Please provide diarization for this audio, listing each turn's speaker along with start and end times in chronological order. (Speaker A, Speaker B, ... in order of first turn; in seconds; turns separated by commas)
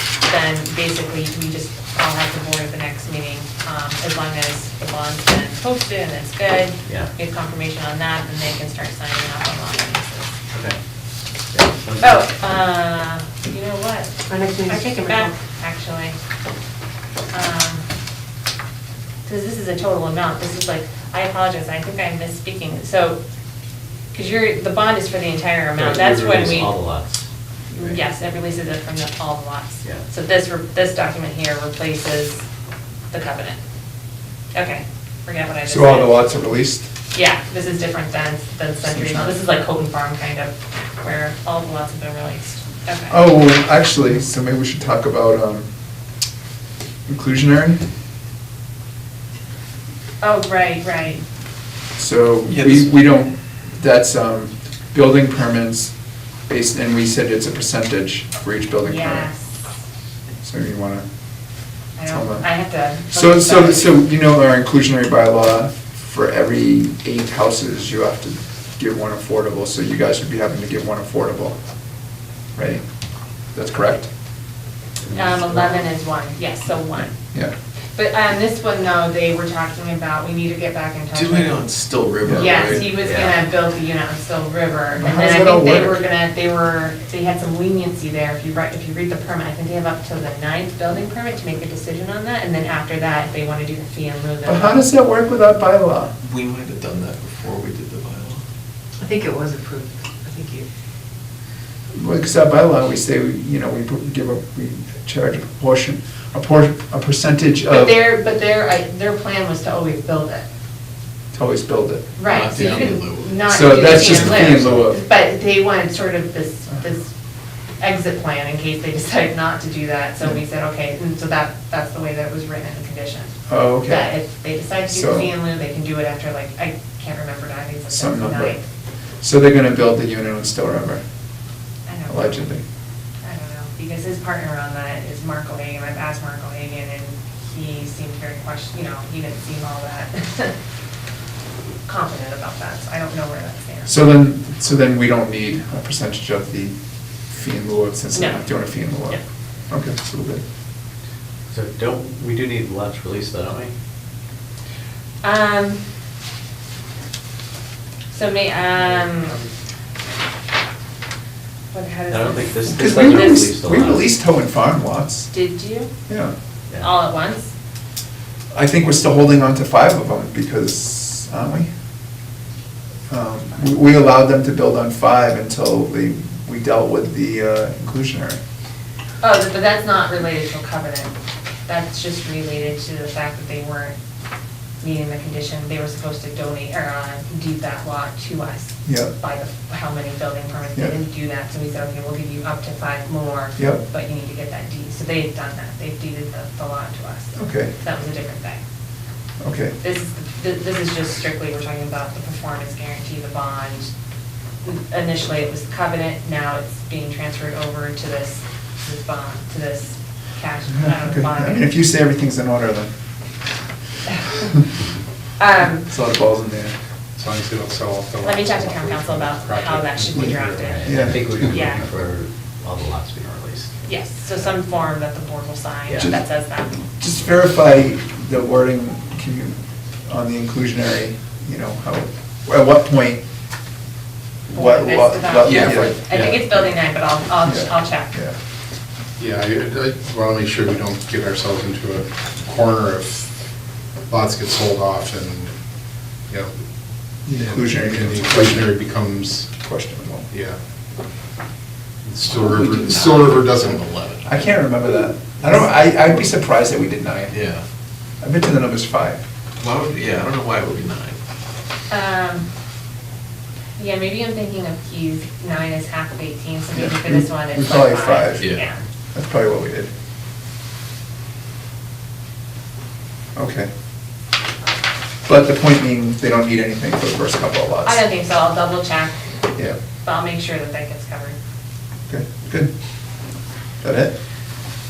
Speaker A: 0.2-10.4, Speaker B: 6.8-7.1, Speaker B: 11.5-12.3, Speaker A: 12.0-16.1, Speaker C: 14.3-15.3, Speaker A: 17.3-17.8, Speaker A: 19.2-23.2, Speaker A: 24.1-26.7, Speaker B: 25.7-27.3, Speaker A: 27.7-32.4, Speaker A: 33.1-33.6, Speaker A: 34.5-36.2, Speaker D: 35.6-36.9, Speaker A: 37.1-43.2, Speaker D: 38.9-39.4, Speaker D: 43.1-45.7, Speaker D: 47.1-47.8, Speaker A: 50.2-51.2, Speaker D: 52.0-55.9, Speaker E: 52.5-53.0, Speaker D: 56.5-59.3, Speaker A: 58.8-59.7, Speaker D: 60.4-61.0, Speaker A: 62.0-63.9, Speaker D: 62.1-62.5, Speaker D: 63.1-71.6, Speaker D: 72.5-72.8, Speaker D: 73.5-74.1, Speaker B: 75.0-75.7, Speaker A: 75.1-77.1, Speaker A: 77.9-81.7, Speaker E: 81.1-82.9, Speaker D: 82.2-82.6, Speaker A: 82.3-94.8, Speaker B: 83.0-83.4, Speaker D: 85.0-86.0, Speaker D: 94.5-96.1, Speaker E: 96.2-98.4, Speaker C: 99.0-100.6, Speaker D: 101.9-108.0, Speaker A: 107.7-110.5, Speaker D: 111.3-112.1, Speaker A: 112.2-117.1, Speaker E: 112.2-114.8, Speaker D: 113.4-115.0, Speaker A: 117.8-128.6, Speaker D: 123.5-124.1, Speaker D: 124.9-125.3, Speaker D: 127.9-128.6, Speaker D: 129.2-131.0, Speaker A: 131.9-132.5, Speaker D: 132.1-132.6, Speaker A: 133.2-140.5, Speaker A: 141.8-144.1, Speaker D: 143.8-146.7, Speaker D: 147.3-150.4, Speaker A: 148.1-149.2, Speaker B: 151.5-153.7, Speaker A: 155.2-155.8, Speaker A: 158.1-159.4, Speaker A: 161.7-163.5, Speaker B: 162.1-164.1, Speaker D: 162.7-165.3, Speaker A: 165.3-165.9, Speaker D: 166.1-166.3, Speaker A: 166.8-167.5, Speaker D: 168.5-171.7, Speaker D: 173.1-178.4, Speaker A: 179.2-181.1, Speaker A: 181.7-183.9, Speaker A: 184.8-198.6, Speaker D: 188.8-189.1, Speaker D: 197.3-197.7, Speaker D: 199.4-199.8, Speaker A: 199.8-203.9, Speaker A: 204.6-211.7, Speaker D: 210.7-212.9, Speaker A: 215.4-215.9, Speaker D: 215.8-216.7, Speaker F: 217.2-220.6, Speaker A: 218.2-221.9, Speaker D: 220.1-221.2, Speaker B: 220.5-223.7, Speaker A: 223.8-226.8, Speaker B: 225.9-226.1, Speaker D: 227.0-233.2, Speaker D: 234.5-235.9, Speaker A: 234.5-238.1, Speaker E: 235.4-235.9, Speaker F: 236.1-236.5, Speaker D: 237.4-238.3, Speaker F: 239.2-243.3, Speaker F: 244.1-245.5, Speaker D: 247.2-248.7, Speaker F: 247.3-249.5, Speaker D: 249.6-250.3, Speaker F: 250.3-250.6, Speaker F: 252.0-253.9, Speaker E: 252.2-254.5, Speaker D: 254.2-257.3, Speaker E: 257.3-257.6, Speaker D: 258.2-259.2, Speaker E: 259.6-261.2, Speaker A: 261.9-262.5, Speaker A: 263.8-268.8, Speaker D: 266.7-268.5, Speaker D: 269.1-269.9, Speaker D: 273.4-273.7, Speaker D: 275.2-278.0, Speaker A: 277.8-279.2, Speaker A: 280.0-281.4, Speaker D: 282.1-282.7, Speaker D: 283.8-284.1